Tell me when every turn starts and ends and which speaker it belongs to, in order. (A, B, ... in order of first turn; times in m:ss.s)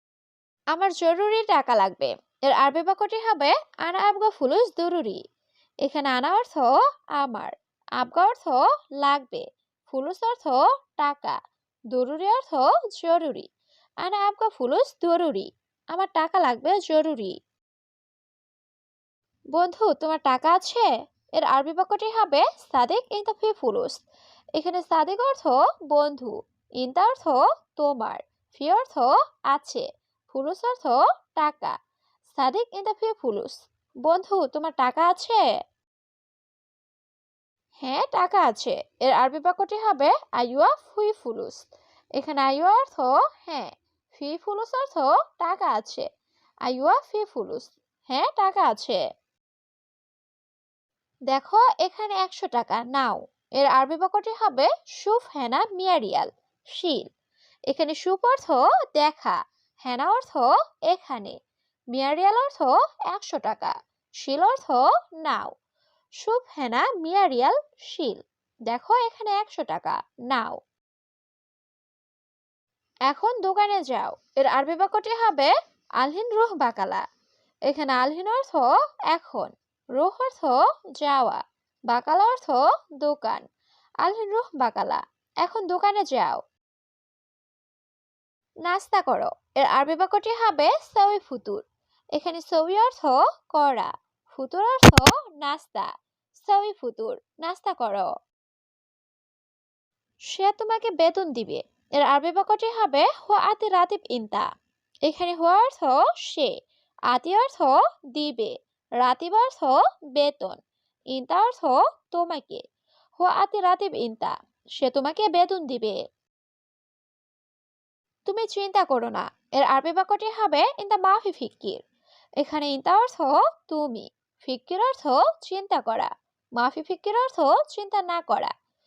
0:00.7-0:05.2 A
0:05.8-0:11.4 A
0:11.9-0:13.5 A
0:14.0-0:17.4 A
0:19.5-0:24.0 A
0:24.6-0:31.8 A
0:32.3-0:33.5 A
0:34.0-0:35.4 A
0:37.8-0:46.1 A
0:46.6-0:49.0 A
0:51.3-0:57.0 A
0:57.7-1:01.4 A
1:01.9-1:05.5 A
1:06.2-1:10.6 A
1:13.1-1:17.0 A
1:17.7-1:23.4 A
1:24.0-1:26.4 A
1:28.6-1:31.6 A
1:32.2-1:38.1 A
1:40.3-1:44.5 A
1:45.0-1:46.5 A
1:47.1-1:50.6 A
1:51.1-1:52.6 A
1:53.2-1:56.0 A
1:58.2-2:01.8 A
2:02.4-2:08.5 A